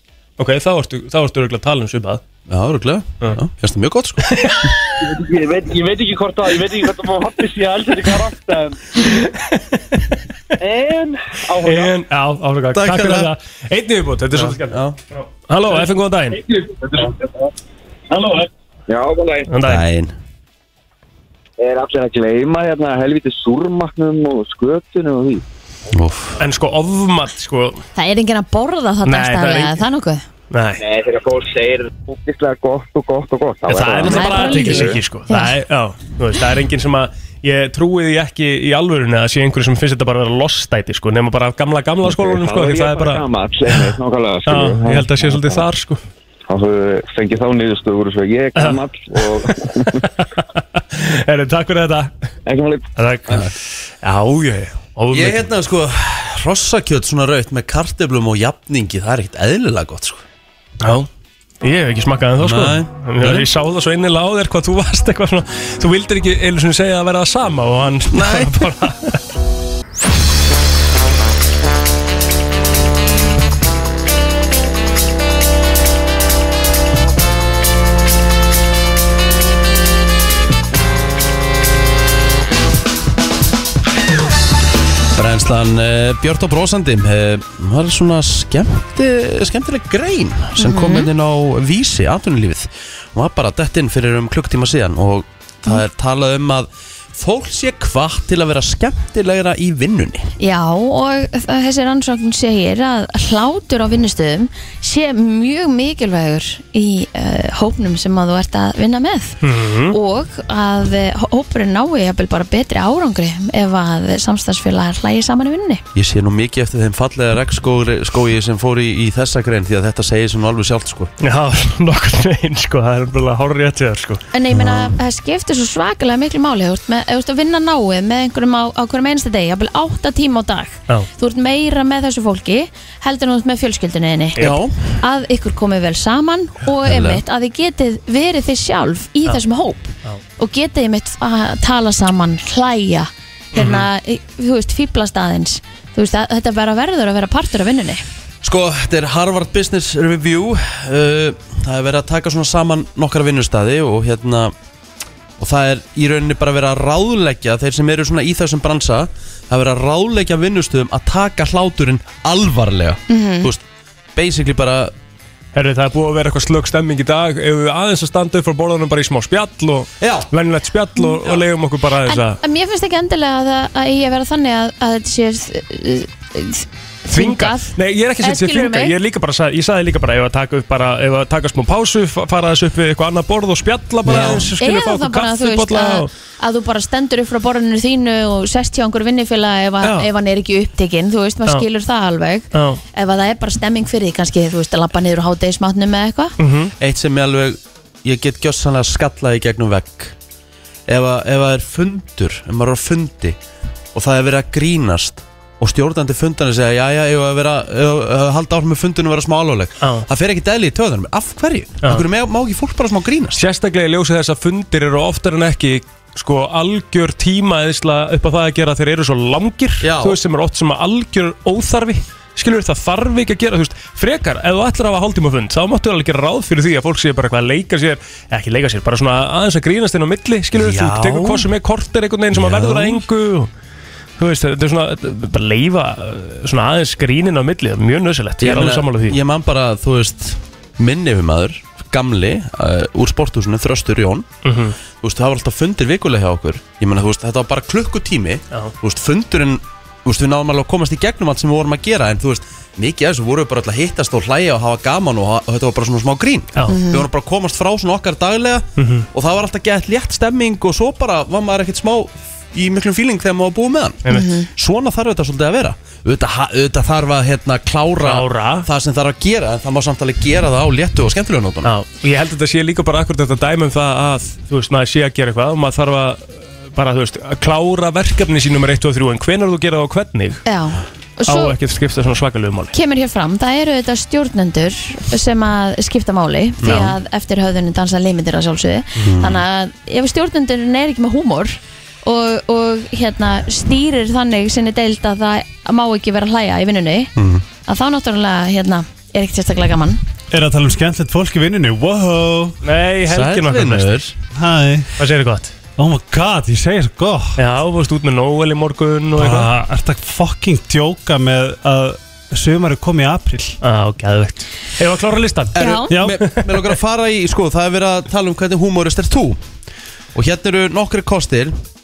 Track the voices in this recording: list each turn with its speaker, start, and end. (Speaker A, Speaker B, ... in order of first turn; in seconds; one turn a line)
Speaker A: 0.4-2.2
Speaker B: 2.5-4.3
Speaker A: 4.2-4.7
Speaker C: 5.0-8.9
Speaker A: 9.2-10.0
Speaker C: 10.6-12.0
Speaker A: 11.6-14.8
Speaker B: 12.7-13.3
Speaker B: 14.3-15.0
Speaker A: 15.5-16.4
Speaker C: 16.5-17.1
Speaker C: 18.1-18.5
Speaker D: 18.9-19.5
Speaker A: 19.5-19.8
Speaker B: 19.6-20.1
Speaker D: 21.6-25.4
Speaker B: 25.9-26.4
Speaker A: 26.4-27.8
Speaker E: 27.9-30.2
Speaker A: 29.0-29.8
Speaker A: 30.5-30.8
Speaker D: 30.8-35.0
Speaker A: 33.7-43.9
Speaker E: 34.0-35.6
Speaker D: 42.1-45.6
Speaker A: 44.5-46.0
Speaker D: 46.5-50.0
Speaker A: 48.5-52.1
Speaker D: 52.5-53.4
Speaker A: 53.0-55.5
Speaker B: 55.1-60.2
Speaker A: 60.8-61.1
Speaker A: 61.6-69.2
Speaker B: 62.4-63.5
Speaker B: 68.1-68.6
Speaker B: 85.1-100.3
Speaker E: 90.6-91.1
Speaker E: 100.4-115.8
Speaker A: 109.4-110.0
Speaker B: 115.9-121.1
Speaker A: 121.2-124.2
Speaker E: 124.3-134.4
Speaker B: 124.5-125.0
Speaker A: 134.3-134.6
Speaker B: 134.4-134.7
Speaker E: 135.0-148.0
Speaker B: 136.8-137.2
Speaker A: 143.5-143.9
Speaker B: 148.4-154.5
Speaker B: 155.4-163.6
Speaker E: 163.1-163.5
Speaker B: 164.1-164.9
Speaker A: 165.5-172.4
Speaker B: 170.0-170.3
Speaker E: 172.1-178.9
Speaker A: 177.1-186.1
Speaker B: 184.1-184.4
Speaker E: 184.1-196.3
Speaker A: 189.8-190.1
Speaker A: 192.5-192.8
Speaker A: 196.4-196.7
Speaker B: 196.8-200.2
Speaker B: 200.9-203.4
Speaker B: 203.9-213.4
Speaker A: 213.3-233.5
Speaker B: 219.8-220.2
Speaker B: 230.5-231.4
Speaker B: 232.3-233.0
Speaker A: 234.2-239.2
Speaker B: 238.4-244.3
Speaker A: 244.4-244.8
Speaker B: 245.0-271.7
Speaker A: 256.5-256.8
Speaker E: 256.7-257.0
Speaker A: 258.8-259.1
Speaker A: 264.0-264.3
Speaker E: 264.1-264.5
Speaker A: 268.0-268.7
Speaker A: 271.6-280.4
Speaker E: 280.4-281.5
Speaker A: 281.2-282.7
Speaker E: 282.7-297.1
Speaker B: 286.6-286.9
Speaker B: 289.0-289.4
Speaker B: 297.1-297.4
Speaker E: 297.6-300.0
Speaker F: 300.3-302.6
Speaker A: 302.6-304.0
Speaker B: 303.1-304.1
Speaker F: 304.3-304.9
Speaker A: 305.0-305.5
Speaker F: 305.8-307.4
Speaker A: 307.4-309.5
Speaker F: 309.2-313.6
Speaker A: 313.6-315.6
Speaker B: 315.5-319.4
Speaker E: 315.6-315.9
Speaker F: 315.9-316.2
Speaker B: 320.1-321.6